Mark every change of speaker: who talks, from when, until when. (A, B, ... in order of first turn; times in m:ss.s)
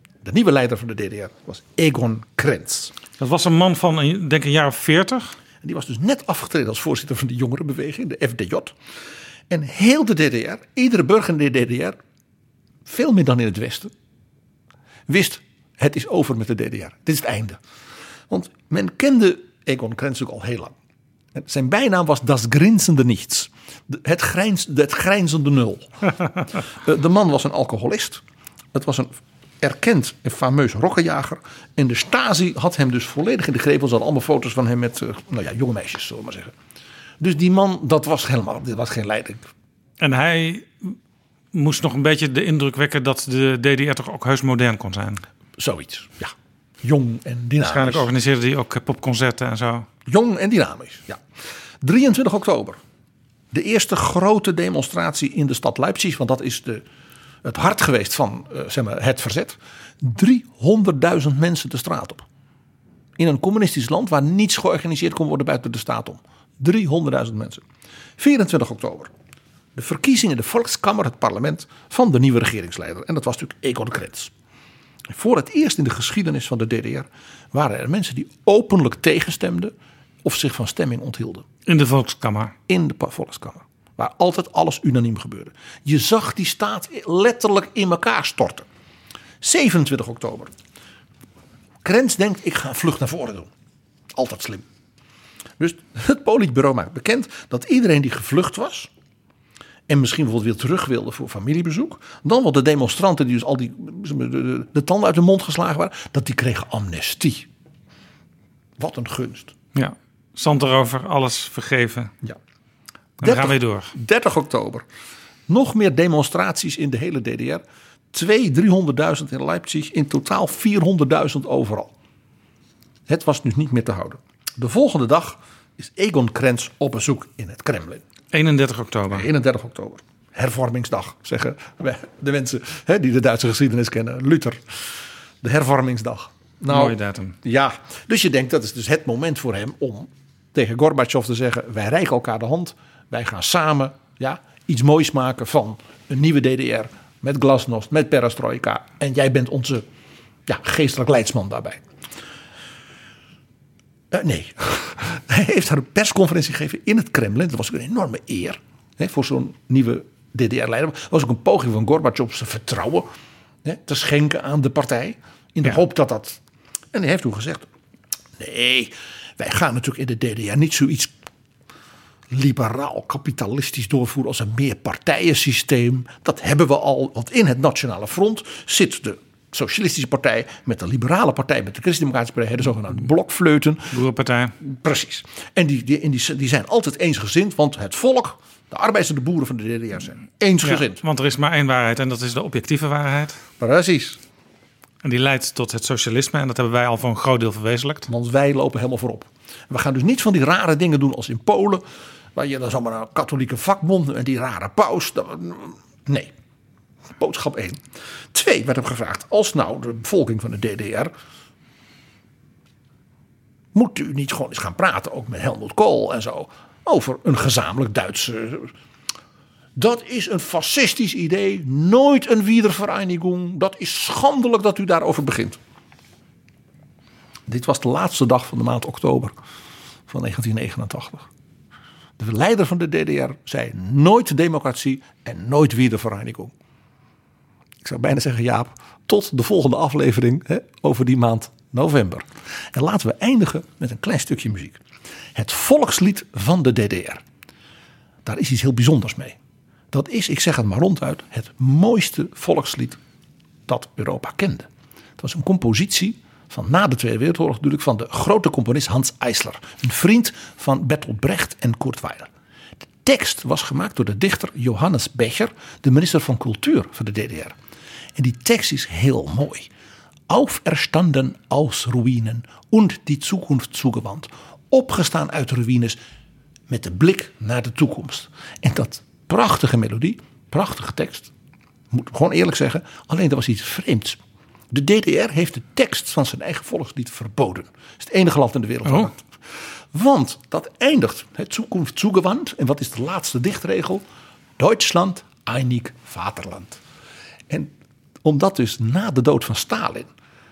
0:00.2-0:02.9 A
0:03.2-0:05.4 B
0:05.6-0:08.7 A
0:09.5-0:12.0 A
0:12.8-0:13.9 A
0:15.1-0:17.6 A
0:18.3-0:20.7 A
0:21.3-0:28.2 A
0:28.7-0:36.5 A
0:37.2-0:39.5 A
0:40.0-0:41.0 B
0:41.5-0:45.2 B
0:45.6-0:48.1 A
0:47.6-0:49.8 B
0:50.0-0:51.2 A
0:51.8-0:52.8 A
0:53.5-0:56.8 A
0:57.4-1:02.2 A
1:03.2-1:07.6 A
1:08.2-1:09.1 A
1:09.7-1:14.3 A
1:15.1-1:21.4 A
1:21.6-1:22.5 B
1:22.7-1:28.6 A
1:29.4-1:30.5 A
1:31.8-1:33.5 A
1:34.1-1:34.6 A
1:35.6-1:38.9 A
1:39.9-1:47.5 A
1:48.8-1:49.5 A
1:49.7-1:52.1 B
1:53.2-1:53.9 B
1:53.2-1:54.8 A
1:55.5-2:01.9 A
2:03.1-2:08.0 A
2:08.3-2:09.3 B
2:09.1-2:29.8 A
2:16.7-2:17.4 B
2:30.5-2:31.8 A
2:34.1-2:43.1 A
2:43.6-2:46.4 A
2:46.9-2:47.7 A
2:48.4-2:51.1 A
2:52.3-3:04.0 A
3:03.9-3:04.5 B
3:04.6-3:11.0 A
3:10.6-3:13.4 B
3:13.6-3:14.2 A
3:15.0-3:18.1 B
3:18.1-3:26.3 A
3:27.2-3:27.8 A
3:28.3-3:31.1 A
3:33.7-3:38.7 A
3:39.8-3:45.6 A
3:47.5-3:49.3 A
3:50.1-3:51.2 A
3:52.2-3:56.5 A
3:57.8-4:04.8 A
4:05.3-4:07.2 A
4:08.2-4:09.4 A
4:09.9-4:13.0 A
4:13.7-4:22.3 A
4:23.0-4:27.6 A
4:28.2-4:29.7 A
4:30.3-4:36.0 A
4:36.7-4:41.3 A
4:41.9-4:44.2 A
4:44.7-4:54.0 A
4:54.6-4:56.8 A
4:58.2-5:00.1 A